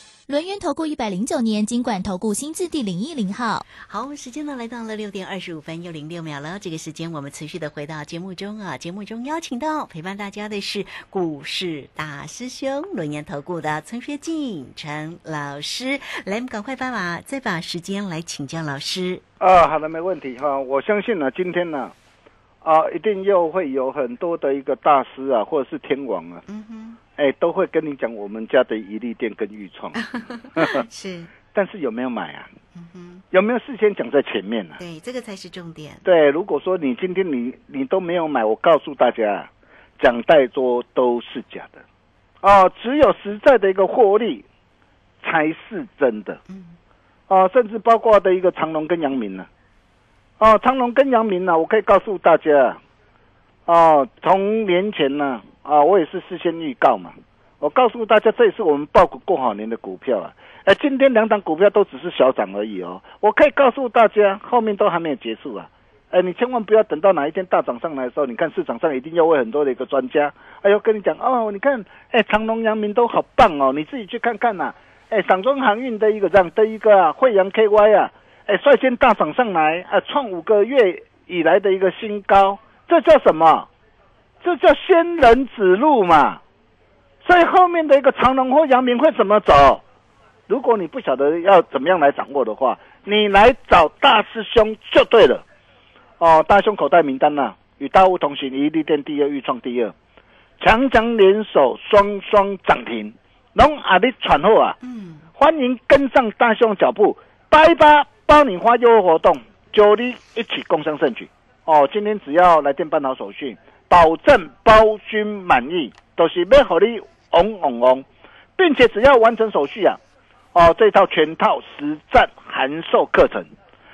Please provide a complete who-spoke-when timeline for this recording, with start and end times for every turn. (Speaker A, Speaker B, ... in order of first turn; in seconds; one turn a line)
Speaker A: 0.3-3.6
Speaker B: 3.7-19.2
Speaker C: 19.4-21.9
Speaker C: 22.6-26.4
Speaker B: 26.4-27.0
Speaker C: 27.2-30.0
Speaker B: 30.0-31.3
Speaker C: 30.5-30.8
Speaker C: 31.5-32.5
Speaker B: 32.7-33.2
Speaker C: 33.3-34.8
Speaker B: 34.8-36.0
Speaker C: 36.0-41.8
Speaker C: 42.4-44.4
Speaker C: 45.2-46.4
Speaker B: 46.5-46.8
Speaker C: 47.3-49.5
Speaker C: 50.4-52.8
Speaker C: 53.7-83.7
Speaker C: 84.4-86.4
Speaker C: 87.2-89.8
Speaker C: 90.5-95.4
Speaker C: 96.2-99.9
Speaker C: 100.6-104.8
Speaker B: 104.8-105.3
Speaker C: 105.4-118.0
Speaker C: 118.6-120.0
Speaker C: 120.5-123.5